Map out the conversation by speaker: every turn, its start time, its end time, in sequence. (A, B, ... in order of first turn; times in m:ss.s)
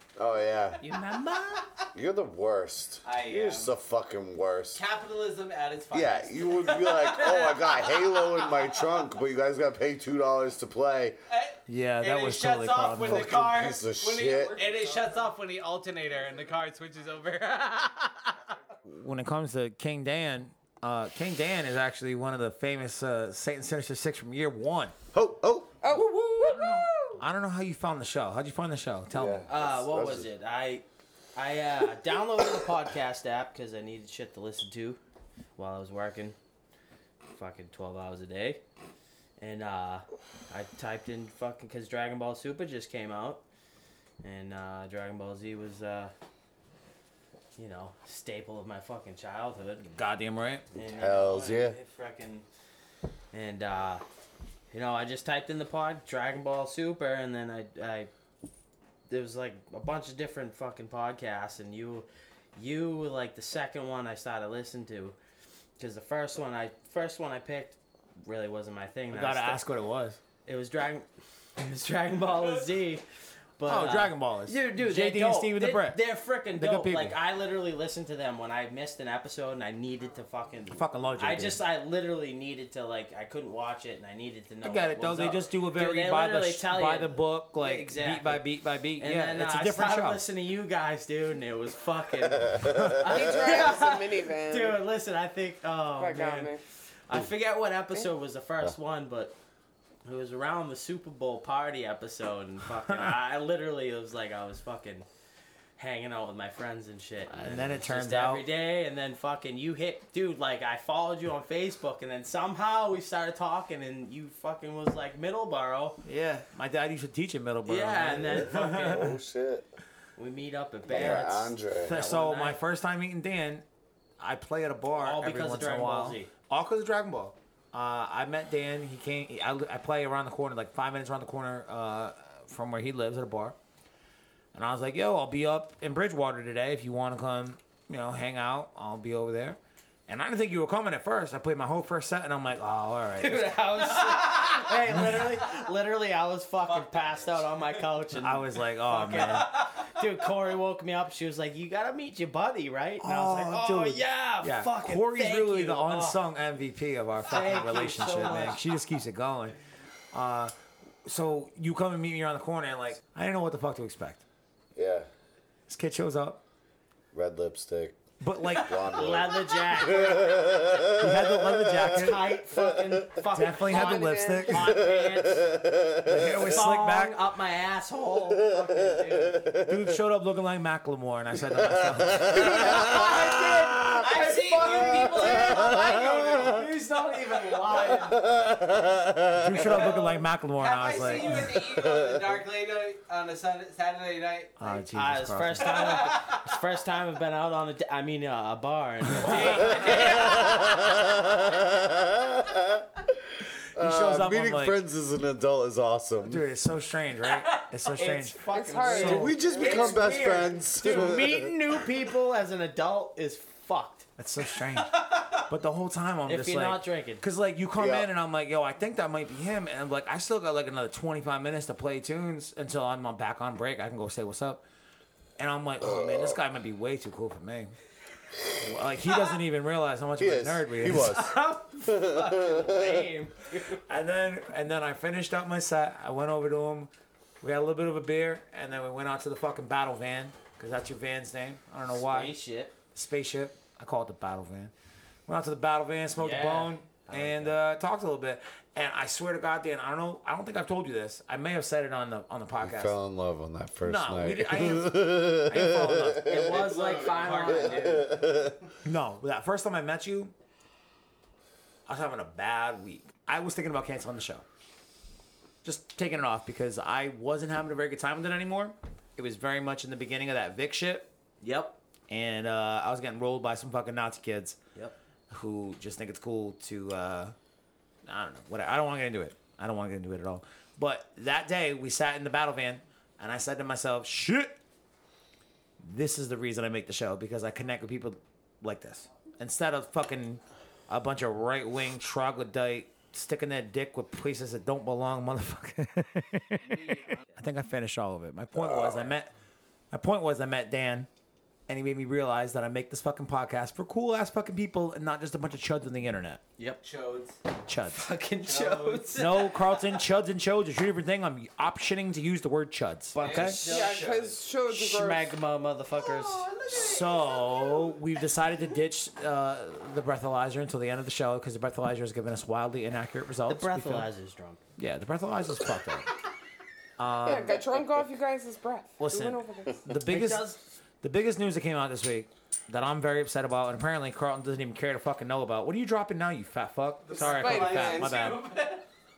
0:00.2-0:00.8 A
0:00.8-0:01.7 B
0:01.9-0:04.8 A
0:03.0-0:03.7 C
0:04.7-0:08.8 C
0:05.9-0:11.2 A
0:11.3-0:18.5 C
0:11.7-0:13.6 D
0:13.0-0:14.6 A
0:14.4-0:15.1 B
0:18.8-0:24.9 D
0:25.1-0:25.8 A
0:25.8-0:27.2 E
0:25.9-0:29.4 D
0:29.1-0:30.3 A
0:29.5-0:35.0 B
0:35.6-0:36.4 B
0:37.3-0:38.6 B
0:39.4-0:43.4 B
0:44.2-0:46.1 B
0:47.6-0:49.9 B
0:49.9-0:50.6 D
0:50.7-0:52.5 B
0:50.9-0:51.8 A
0:53.3-0:54.0 B
0:54.7-0:58.1 B
0:59.1-1:05.2 B
1:05.8-1:09.6 B
1:09.1-1:10.2 D
1:10.4-1:13.0 B
1:13.6-1:28.4 B
1:13.6-1:17.2 D
1:20.7-1:21.6 D
1:24.6-1:30.2 D
1:29.0-1:36.6 B
1:32.2-1:33.2 A
1:33.0-1:34.8 E
1:36.0-1:36.6 E
1:37.1-1:39.4 B
1:40.0-1:45.1 B
1:42.9-1:43.1 D
1:45.8-1:56.0 B
1:47.3-1:48.4 D
1:56.0-1:59.1 D
1:57.6-1:59.0 B
1:58.3-1:59.7 A
2:00.2-2:02.6 B
2:00.9-2:02.0 A
2:01.8-2:03.6 D
2:04.2-2:13.6 D
2:05.0-2:06.3 B
2:14.5-2:23.6 D
2:23.2-2:36.2 B
2:24.2-2:24.7 C
2:24.9-2:25.2 D
2:26.6-2:27.8 C
2:28.2-2:29.5 D
2:29.5-2:29.9 C
2:33.0-2:39.6 D
2:37.3-2:38.6 B
2:40.1-2:40.5 D
2:41.0-2:44.2 D
2:44.7-2:45.1 A
2:45.7-2:46.4 D
2:47.1-2:48.0 A
2:48.2-2:48.8 D
2:48.6-2:53.2 A
2:48.9-2:50.4 B
2:51.0-2:52.4 D
2:51.9-2:55.5 B
2:53.3-2:54.7 D
2:53.6-2:54.7 E
2:54.5-2:56.6 A
2:56.0-2:57.2 D
2:56.5-2:59.3 B
2:58.3-2:59.9 A
2:59.6-3:02.8 D
3:01.6-3:04.0 A
3:02.6-3:08.0 C
3:04.0-3:05.6 B
3:04.6-3:06.6 A
3:06.4-3:08.2 B
3:07.7-3:09.8 A
3:09.4-3:11.6 D
3:09.6-3:14.8 C
3:11.6-3:12.3 A
3:14.6-3:16.0 D
3:14.9-3:20.4 B
3:15.6-3:16.4 C
3:19.3-3:20.6 C
3:19.9-3:23.1 A
3:23.7-3:26.4 A
3:23.8-3:24.8 D
3:26.2-3:29.3 D
3:27.9-3:34.1 B
3:28.5-3:30.3 E
3:29.0-3:31.5 A
3:34.2-3:44.6 D
3:36.3-3:37.2 B
3:37.8-3:38.1 A
3:45.4-3:47.7 D
3:45.8-3:46.4 A
3:48.5-3:51.2 D
3:50.2-3:53.1 A
3:51.1-3:53.8 B
3:53.9-3:56.9 D
3:57.4-4:02.3 D
4:02.0-4:02.7 B
4:02.9-4:04.7 D
4:05.3-4:13.0 D
4:06.2-4:07.5 B
4:12.6-4:16.6 A
4:13.8-4:16.2 D
4:16.2-4:18.0 B
4:16.3-4:18.1 C
4:17.5-4:18.6 A
4:18.8-4:20.3 D
4:21.9-4:24.4 D
4:25.6-4:31.1 D
4:31.4-4:31.8 B
4:32.1-4:34.6 D
4:35.3-4:37.3 D
4:38.0-4:44.6 D
4:45.8-4:59.3 D
4:56.6-4:57.3 C
4:58.6-4:59.1 A
4:59.9-5:01.1 D
5:01.7-5:06.4 D
5:06.8-5:07.4 C
5:07.6-5:08.1 D
5:07.9-5:09.6 B
5:08.4-5:09.2 C
5:09.1-5:13.6 D
5:13.1-5:16.5 B
5:13.2-5:14.4 C
5:13.6-5:15.3 E
5:15.9-5:18.0 C
5:16.7-5:24.1 D
5:23.5-5:24.6 B
5:24.8-5:26.1 D
5:27.0-5:27.6 D
5:27.2-5:29.7 E
5:29.0-5:38.5 D
5:30.0-5:30.6 B
5:37.1-5:38.8 C
5:37.2-5:38.1 E